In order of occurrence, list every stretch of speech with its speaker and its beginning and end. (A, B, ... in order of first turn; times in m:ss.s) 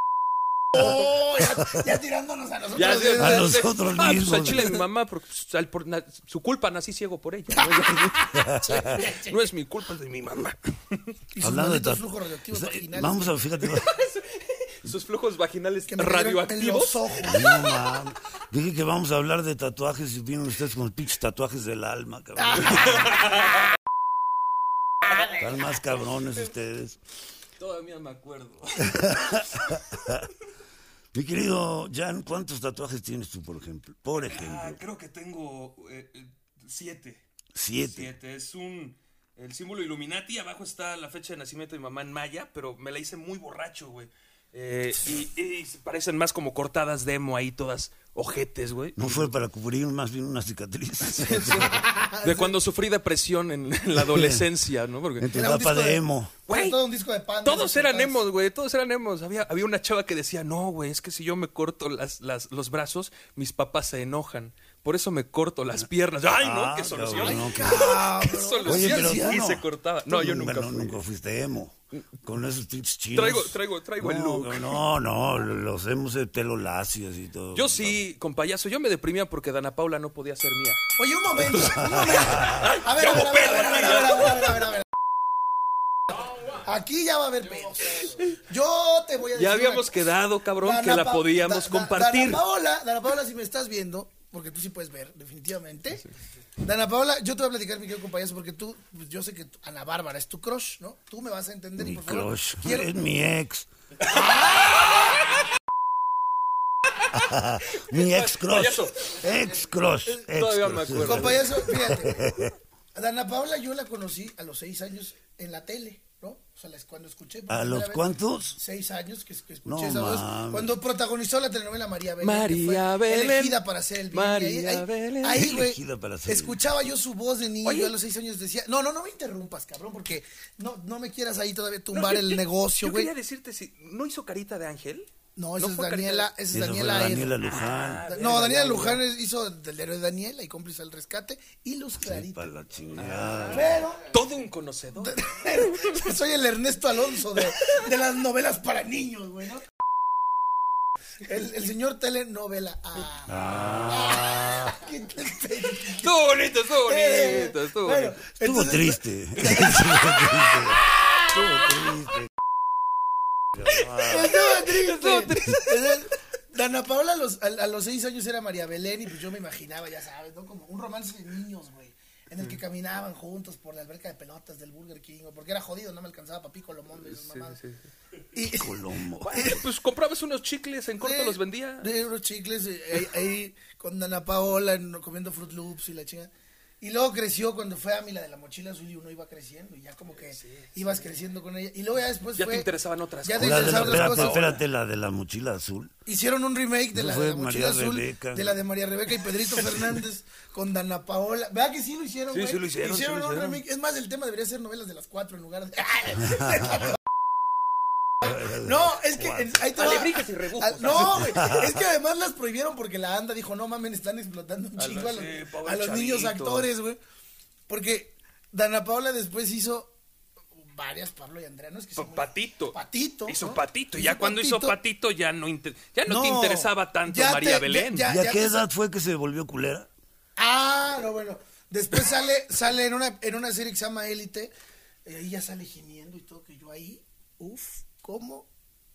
0:00.7-0:03.5 A
0:02.7-0:11.1 B
0:03.2-0:04.8 C
0:08.3-0:09.0 C
0:09.0-0:09.3 A
0:11.3-0:13.4 A
0:11.4-0:13.9 C
0:13.6-0:17.3 B
0:15.9-0:17.6 A
0:17.2-0:23.1 C
0:22.6-0:23.2 B
0:25.3-0:27.0 C
0:27.6-0:29.4 B
0:28.8-0:30.3 C
0:31.1-0:34.8 C
0:34.3-0:37.2 B
0:37.5-0:38.1 C
0:37.8-0:49.3 B
0:49.0-0:51.7 C
0:51.1-0:52.6 A
0:52.2-0:55.3 B
0:53.9-0:54.5 C
0:55.2-0:56.4 C
0:55.3-0:58.2 A
0:56.5-0:56.8 B
0:57.4-1:11.0 B
1:06.3-1:08.2 C
1:07.2-1:09.4 A
1:08.7-1:18.0 C
1:13.1-1:14.8 B
1:17.5-1:20.8 B
1:21.0-1:24.8 A
1:21.5-1:22.7 C
1:22.3-1:24.7 B
1:26.6-1:30.0 A
1:29.3-1:32.4 B
1:30.6-1:36.1 A
1:36.6-1:42.9 A
1:41.8-1:43.7 C
1:44.1-1:44.8 A
1:44.1-1:44.7 B
1:47.1-1:52.5 C
1:47.8-1:49.2 B
1:50.0-1:51.7 B
1:51.0-1:52.2 A
1:52.9-2:13.1 A
1:57.5-1:58.6 C
1:59.6-2:00.7 C
2:02.2-2:05.5 B
2:05.3-2:06.6 C
2:07.6-2:07.9 B
2:11.9-2:16.3 B
2:15.4-2:17.4 A
2:16.5-2:18.0 C
2:17.4-2:19.0 B
2:18.1-2:22.5 A
2:22.0-2:23.8 C
2:23.0-2:26.0 B
2:23.5-2:24.1 A
2:25.0-2:29.6 A
2:31.2-2:36.1 A
2:33.3-2:34.7 C
2:35.9-2:38.1 B
2:36.8-2:39.8 A
2:38.4-2:42.3 C
2:43.6-2:44.2 C
2:43.9-2:46.0 B
2:43.9-2:57.6 A
2:57.0-2:57.8 B
2:58.3-2:59.6 A
2:58.5-2:59.5 C
2:59.2-3:01.9 B
3:01.0-3:06.3 A
3:06.8-3:12.7 A
3:10.3-3:10.9 B
3:12.4-3:14.6 B
3:13.2-3:14.5 A
3:13.4-3:15.9 C
3:16.0-3:26.9 A
3:16.9-3:18.6 C
3:22.3-3:23.6 B
3:28.2-3:29.5 C
3:28.3-3:37.0 A
3:29.7-3:31.3 B
3:31.3-3:31.7 C
3:34.8-3:36.7 B
3:37.7-3:39.9 A
3:40.6-3:44.8 A
3:42.0-3:48.0 B
3:46.0-3:48.6 A
3:48.1-3:49.9 C
3:50.4-3:54.5 A
3:55.0-3:58.5 A